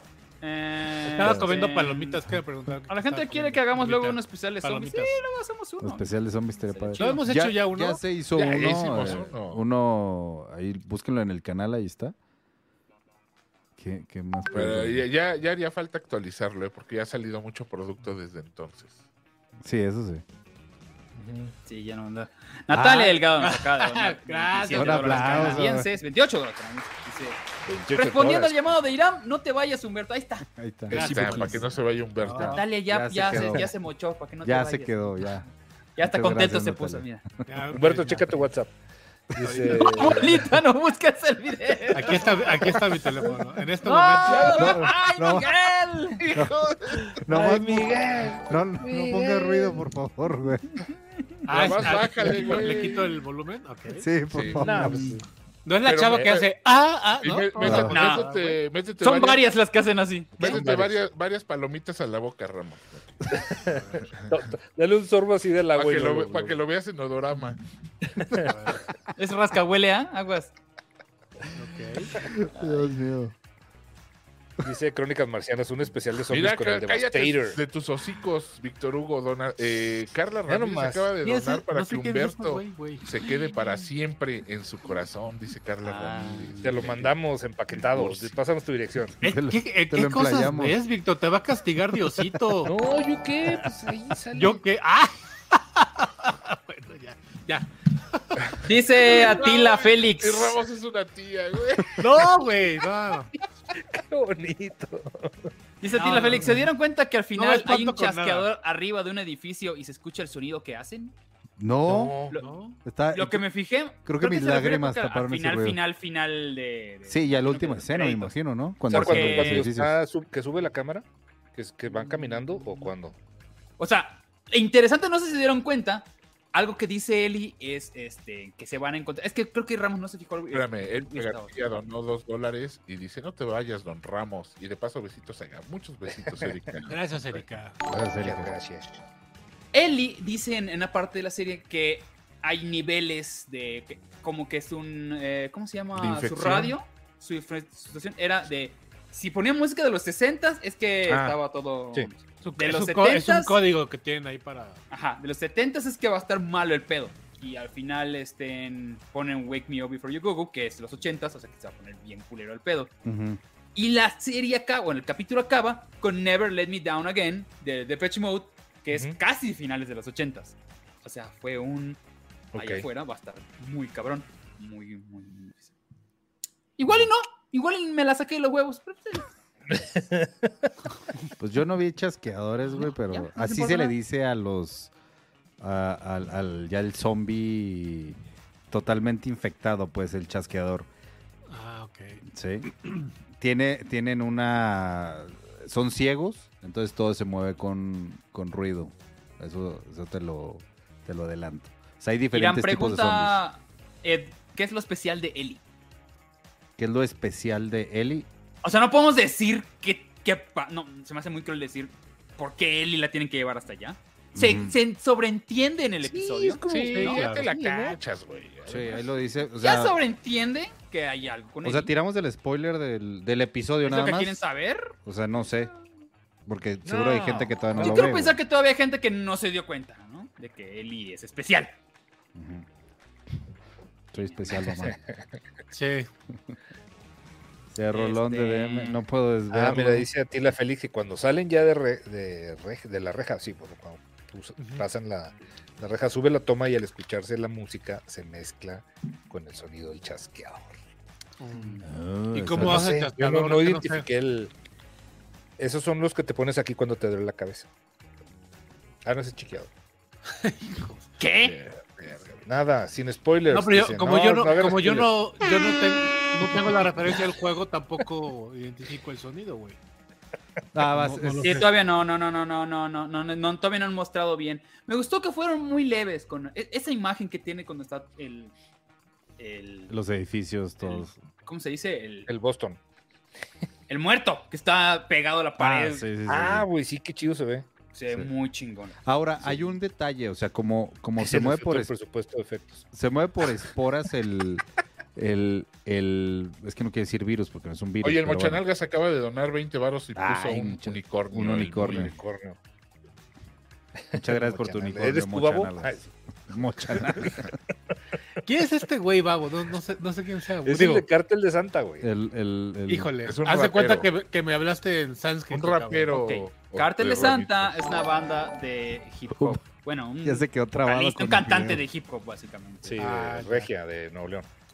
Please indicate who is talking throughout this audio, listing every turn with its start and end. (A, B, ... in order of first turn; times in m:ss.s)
0:00.4-0:02.2 A
0:01.1-0:05.2 B
0:02.9-0:06.1 A
0:05.8-0:12.2 C
0:06.7-0:07.2 A
0:07.0-0:08.0 B
0:08.4-0:09.6 D
0:13.8-0:15.0 C
0:14.5-0:19.0 D
0:19.6-0:20.2 C
0:21.2-0:21.5 E
0:21.7-0:27.4 A
0:22.7-0:23.2 C
0:23.4-0:25.6 B
0:24.7-0:25.9 C
0:27.7-0:28.6 E
0:27.9-0:30.5 A
0:30.6-0:31.6 C
0:30.9-0:31.6 B
0:30.9-0:32.6 D
0:31.0-0:31.6 E
0:32.2-0:32.6 B
0:32.3-0:33.7 C
0:32.5-0:35.3 A
0:34.4-0:35.5 C
0:36.0-0:37.2 A
0:36.0-0:37.1 C
0:37.5-0:38.4 B
0:37.7-0:38.7 E
0:39.3-0:40.6 E
0:39.4-0:40.3 B
0:39.7-0:42.8 A
0:41.9-0:44.8 B
0:43.8-0:46.2 A
0:44.6-0:45.5 C
0:46.2-0:47.1 D
0:46.3-0:50.8 C
0:47.3-0:49.8 E
0:51.5-0:54.1 B
0:51.5-0:53.1 D
0:54.0-0:55.2 C
0:54.3-0:54.7 D
0:54.6-0:55.2 E
0:54.9-0:55.2 A
0:55.6-0:58.6 B
0:55.8-0:56.5 D
0:57.2-0:59.4 D
0:57.6-0:58.0 C
0:57.9-0:58.3 A
0:59.0-1:00.6 A
1:00.4-1:03.3 D
1:00.4-1:01.0 E
1:03.3-1:06.6 E
1:03.7-1:04.1 B
1:05.8-1:07.6 D
1:08.2-1:08.5 E
1:08.4-1:08.8 B
1:09.2-1:10.5 A
1:11.6-1:12.1 B
1:12.2-1:13.3 C
1:14.6-1:17.6 E
1:16.3-1:27.1 D
1:20.5-1:21.1 E
1:21.2-1:23.1 B
1:25.8-1:27.0 A
1:26.6-1:29.2 E
1:27.8-1:28.3 D
1:29.2-1:32.7 B
1:29.2-1:30.8 C
1:32.6-1:34.6 E
1:34.3-1:38.6 B
1:38.6-1:40.6 A
1:39.1-1:42.1 D
1:42.0-1:43.3 B
1:43.8-1:45.5 E
1:45.8-1:51.1 A
1:45.9-1:46.7 B
1:47.4-1:48.5 B
1:51.6-1:52.2 C
1:51.9-1:52.4 E
1:52.3-1:52.6 A
1:52.4-1:52.8 B
1:52.8-1:55.8 C
1:53.1-1:58.4 A
1:57.1-2:00.0 C
1:58.9-1:59.7 A
1:58.9-2:03.2 E
2:03.8-2:11.7 A
2:10.5-2:17.4 D
2:16.9-2:17.8 B
2:17.9-2:18.5 C
2:17.9-2:18.9 E
2:19.7-2:33.6 A
2:26.1-2:26.6 D
2:31.1-2:31.4 E
2:32.4-2:34.8 B
2:34.9-2:42.9 A
2:43.0-2:43.4 C
2:43.8-2:52.0 A
2:48.9-2:49.2 E
2:52.5-2:52.9 E
2:52.6-2:55.7 A
2:56.8-2:59.3 A
2:59.7-3:00.3 E
3:01.4-3:04.9 C
3:03.0-3:04.0 A
3:05.6-3:08.2 C
3:08.7-3:10.9 C
3:11.5-3:12.2 B
3:12.3-3:12.7 C
3:13.4-3:23.4 C
3:22.3-3:25.6 A
3:26.8-3:28.3 C
3:28.6-3:37.2 A
3:34.3-3:34.8 C
3:36.0-3:38.0 E
3:36.7-3:39.1 D
3:36.9-3:37.5 B
3:38.7-3:40.0 C
3:39.6-3:41.9 A
3:41.6-3:44.4 C
3:43.8-3:44.9 A
3:45.0-3:45.7 C
3:46.5-3:48.4 C
3:46.8-3:48.1 E
3:47.8-3:51.8 A
3:52.4-3:52.7 C
3:54.1-3:55.0 C
3:54.6-3:55.0 E
3:55.7-3:56.1 B
3:57.7-4:00.1 C
3:57.9-3:59.0 A
3:59.5-4:10.8 E
4:04.6-4:04.9 B
4:11.4-4:14.1 B
4:11.5-4:11.8 A
4:11.8-4:12.9 C
4:12.6-4:14.5 E
4:15.6-4:17.7 E
4:19.0-4:19.7 E
4:20.4-4:21.0 B
4:21.2-4:21.6 A
4:21.4-4:22.4 D
4:22.5-4:25.2 E
4:23.5-4:29.8 B
4:30.7-4:31.5 C
4:30.8-4:31.7 B
4:31.4-4:38.5 A
4:39.4-4:40.0 A
4:39.9-4:41.2 C
4:40.8-4:42.3 A
4:42.3-4:42.8 E
4:43.9-4:46.1 A
4:45.6-4:46.7 C
4:46.3-4:47.7 E
4:47.9-4:49.0 A
4:49.0-4:51.9 C
4:49.4-4:49.7 E
4:51.2-4:52.9 E
4:52.9-4:54.6 C
4:55.2-4:58.6 C
4:58.0-5:02.1 D
5:00.2-5:02.2 C
5:01.8-5:02.6 E
5:04.1-5:06.0 E
5:04.2-5:07.5 C
5:06.8-5:07.5 E
5:08.4-5:11.1 B
5:10.6-5:12.1 E
5:12.0-5:13.1 C
5:12.9-5:16.2 B
5:13.3-5:14.1 D
5:15.5-5:17.8 D
5:16.1-5:23.0 A
5:19.3-5:19.6 C
5:20.2-5:21.8 C
5:22.8-5:24.5 E
5:23.0-5:23.7 B